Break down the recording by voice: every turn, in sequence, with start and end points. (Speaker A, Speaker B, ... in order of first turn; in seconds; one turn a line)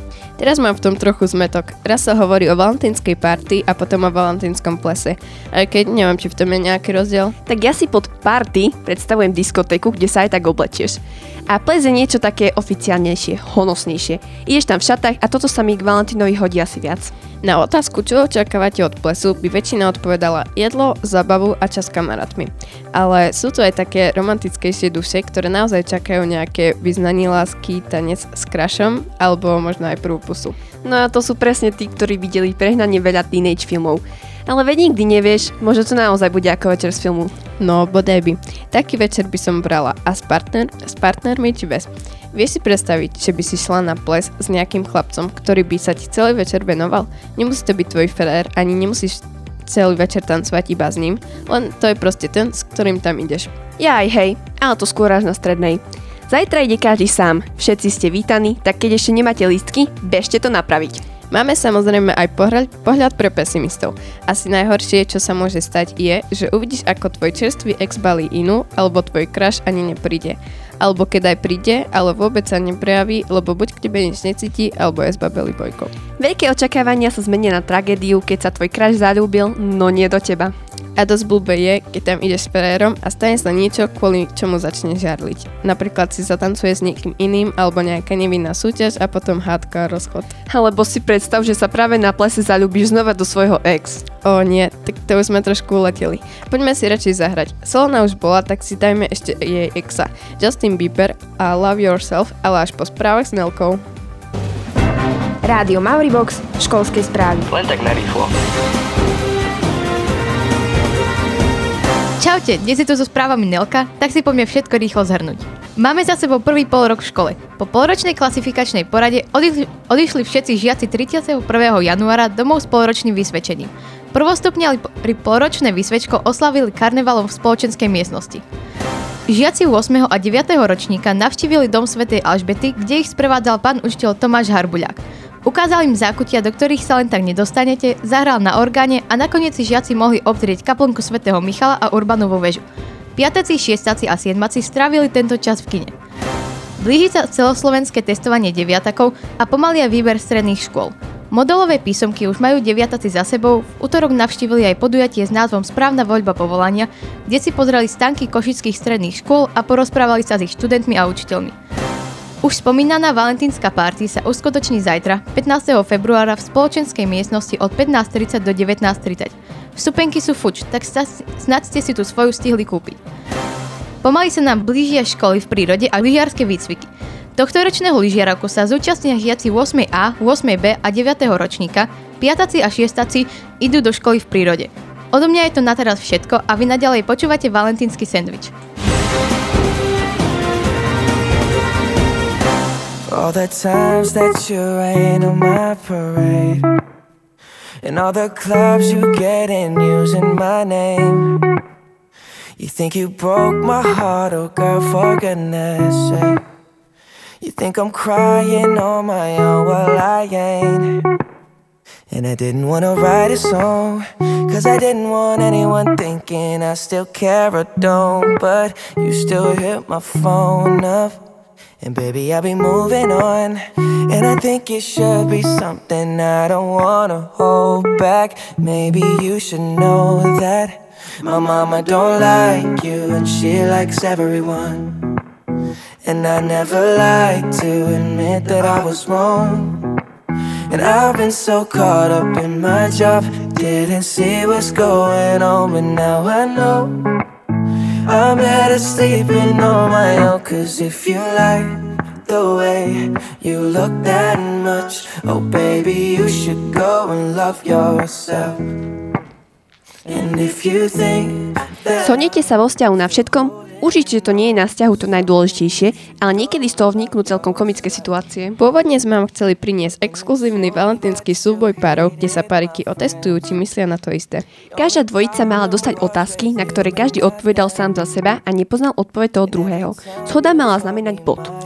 Speaker A: 0.4-7.4
Speaker B: 7.5-17.1
Speaker A: 17.4-30.6
Speaker B: 30.8-37.4
Speaker A: 37.6-53.6
Speaker B: 53.8-61.0
Speaker A: 61.3-75.9
Speaker B: 76.2-80.5
Speaker A: 81.0-90.3
Speaker B: 90.5-94.1
Speaker A: 94.2-103.8
Speaker B: 105.6-107.2
Speaker C: 112.2-128.4
Speaker C: 129.3-142.6
Speaker C: 143.2-145.9
Speaker C: 146.8-161.5
Speaker C: 162.4-173.0
Speaker C: 174.0-188.5
Speaker D: 193.1-196.7
Speaker D: 197.8-201.4
Speaker D: 202.6-206.4
Speaker D: 207.4-211.0
Speaker D: 212.1-221.2
Speaker D: 221.8-235.0
Speaker D: 236.0-239.8
Speaker D: 240.7-247.0
Speaker D: 248.1-258.6
Speaker D: 260.0-262.1
Speaker B: 262.0-268.6
Speaker A: 268.6-274.4
Speaker B: 274.7-281.5